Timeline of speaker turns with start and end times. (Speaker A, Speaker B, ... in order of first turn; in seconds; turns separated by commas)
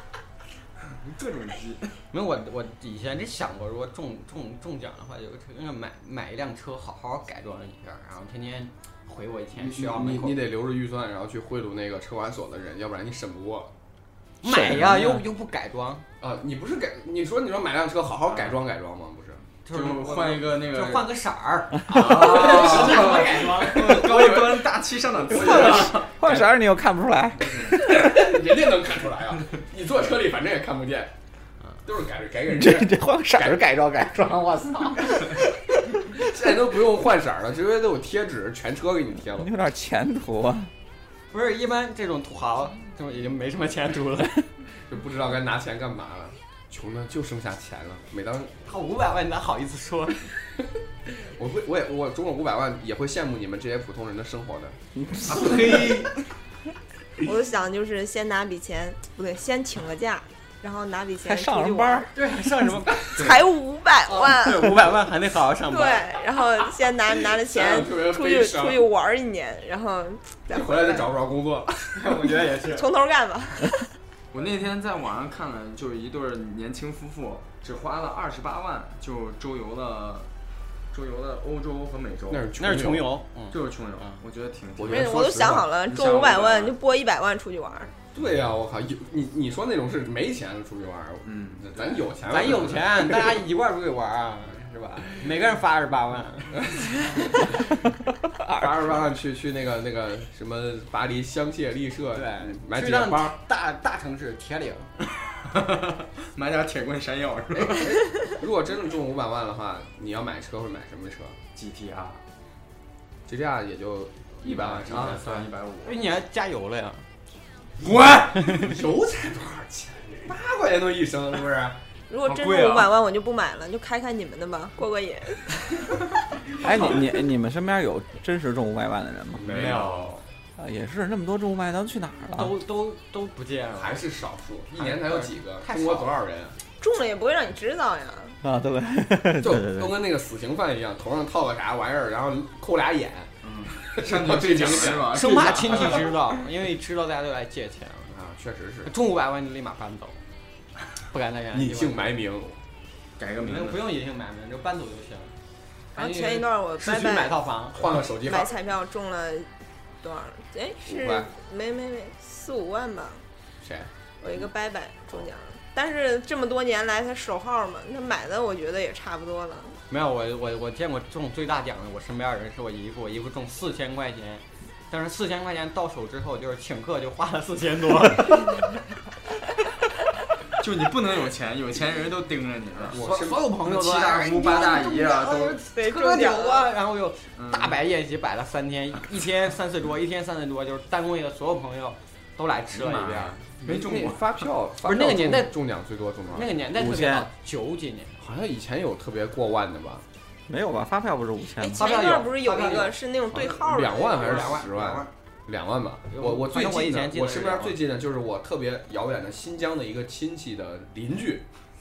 Speaker A: 0.9-2.0, Speaker B: 2.1-10.4, Speaker C: 9.6-13.7, Speaker B: 14.4-16.1, Speaker D: 14.4-15.2, Speaker C: 16.2-19.4, Speaker B: 19.6-24.1, Speaker A: 19.7-21.1, Speaker A: 21.9-26.3, Speaker C: 22.0-26.1, Speaker D: 25.3-28.3, Speaker A: 27.4-27.8, Speaker C: 27.7-31.1, Speaker C: 31.9-33.6, Speaker D: 32.5-35.5, Speaker C: 36.0-39.5, Speaker D: 39.4-40.7, Speaker B: 41.3-44.5, Speaker C: 44.9-48.5, Speaker B: 48.6-50.2, Speaker C: 51.2-54.8, Speaker D: 55.0-55.5, Speaker A: 55.3-56.1, Speaker B: 55.3-56.1, Speaker E: 57.2-62.1, Speaker D: 61.2-62.1, Speaker B: 62.1-63.5, Speaker E: 63.1-64.8, Speaker B: 64.0-66.1, Speaker E: 65.7-71.1, Speaker C: 67.3-68.9, Speaker C: 70.5-72.2, Speaker B: 71.9-72.9, Speaker E: 72.7-73.9, Speaker A: 74.3-80.3, Speaker A: 80.9-82.5, Speaker C: 82.3-83.1, Speaker B: 82.6-84.2, Speaker A: 83.5-86.8, Speaker C: 84.8-85.7, Speaker E: 84.9-87.9, Speaker C: 88.1-93.4, Speaker A: 91.2-92.0, Speaker B: 92.3-96.8, Speaker D: 98.4-98.7, Speaker C: 98.5-103.4, Speaker B: 102.1-104.9, Speaker A: 106.3-108.0, Speaker C: 107.6-111.4, Speaker A: 111.5-112.2, Speaker C: 113.3-115.2, Speaker A: 114.4-116.0, Speaker B: 114.9-117.0, Speaker C: 117.8-121.8, Speaker B: 118.4-118.8, Speaker E: 122.1-125.6, Speaker A: 122.2-123.0, Speaker D: 126.6-129.7, Speaker C: 129.4-130.2, Speaker A: 129.4-130.2, Speaker D: 130.6-132.5, Speaker B: 132.3-134.0, Speaker C: 133.8-136.6, Speaker B: 134.8-136.1, Speaker E: 136.8-138.4, Speaker D: 138.4-140.0, Speaker C: 139.4-145.2, Speaker A: 143.4-146.2, Speaker B: 145.1-148.1, Speaker C: 148.1-148.9, Speaker B: 148.9-150.2, Speaker B: 151.1-152.1, Speaker C: 151.5-152.6, Speaker A: 153.2-153.9, Speaker B: 153.4-155.3, Speaker E: 155.9-157.4, Speaker B: 156.0-157.8, Speaker C: 157.8-158.6, Speaker E: 158.2-159.5, Speaker E: 160.0-163.2, Speaker C: 160.8-161.3, Speaker C: 163.6-163.9, Speaker E: 164.2-169.8, Speaker B: 169.9-178.6, Speaker A: 180.6-185.6, Speaker C: 182.9-183.5, Speaker B: 182.9-194.2, Speaker E: 185.7-186.7, Speaker A: 187.4-187.8, Speaker A: 192.7-194.2, Speaker C: 193.7-196.5, Speaker B: 194.8-195.6, Speaker B: 196.3-198.2, Speaker D: 196.8-197.3, Speaker C: 198.2-200.0, Speaker D: 200.5-201.9, Speaker E: 201.6-204.6, Speaker B: 201.8-203.0, Speaker C: 203.3-211.4, Speaker B: 203.9-205.1, Speaker B: 206.1-207.8